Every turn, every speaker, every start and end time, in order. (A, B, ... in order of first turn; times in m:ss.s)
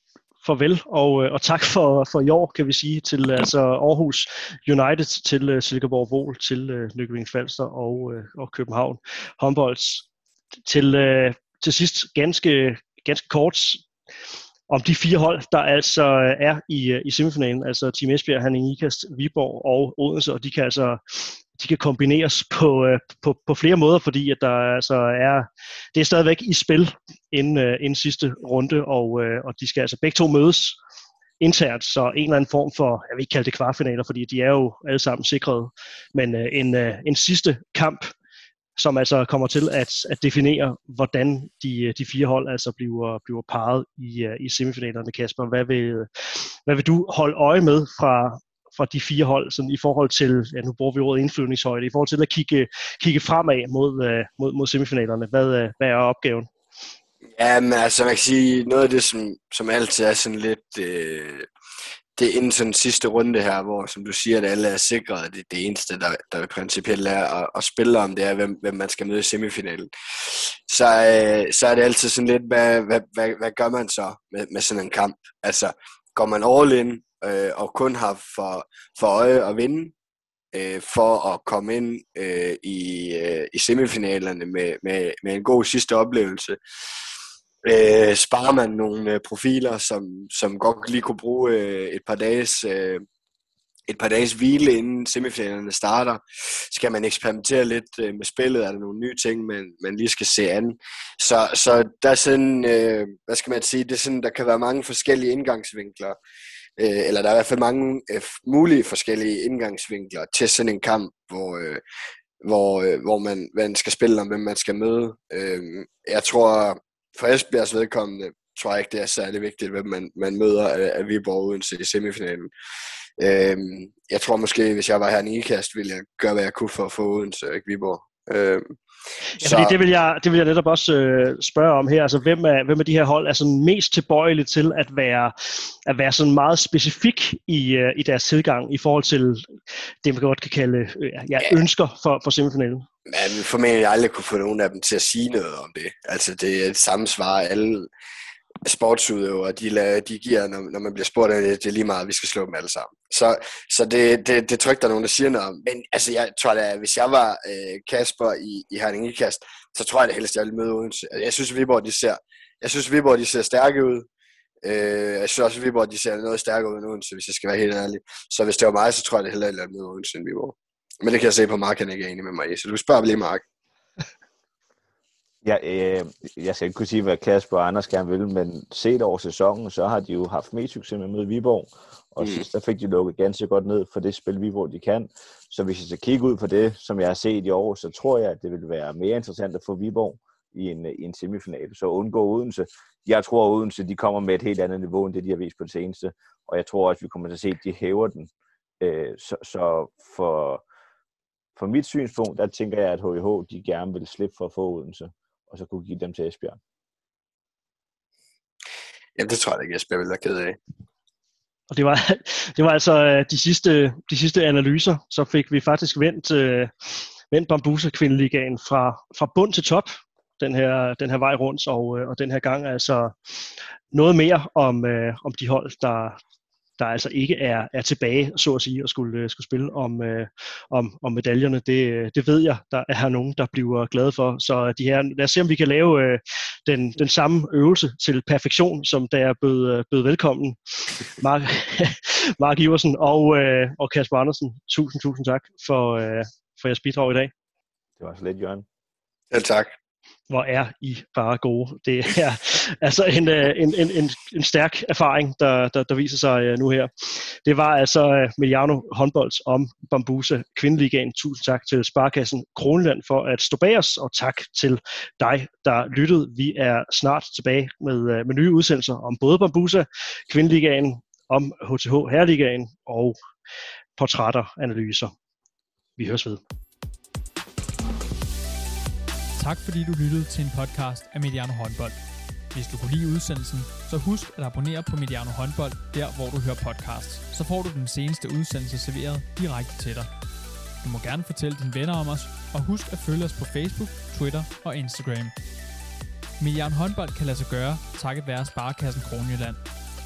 0:00.4-0:10.1 A
0:10.7-0:13.8 A
0:14.7-0:30.8 A
0:31.4-0:38.1 A
0:38.8-0:56.5 A
0:57.4-1:01.5 B
1:02.2-1:19.9 B
1:20.5-1:26.6 B
1:27.6-1:33.0 B
1:33.9-1:46.2 B
1:46.8-1:51.8 B
1:52.4-2:02.5 B
2:03.2-2:08.8 B
2:09.4-2:19.5 A
2:09.4-2:09.8 B
2:20.0-2:22.8 A
2:23.1-2:27.9 B
2:28.6-2:44.1 B
2:44.6-2:53.4 B
2:55.4-3:20.6 C
3:02.2-3:02.5 B
3:21.6-3:26.6 C
3:29.2-3:30.6 B
3:31.7-3:46.2 A
3:46.8-4:07.3 A
4:08.0-4:08.7 C
4:09.3-4:09.8 B
4:10.3-4:33.2 A
4:34.0-4:35.1 A
4:36.0-4:36.4 A
4:39.4-4:50.2 D
4:50.8-4:55.4 D
4:56.4-4:59.7 D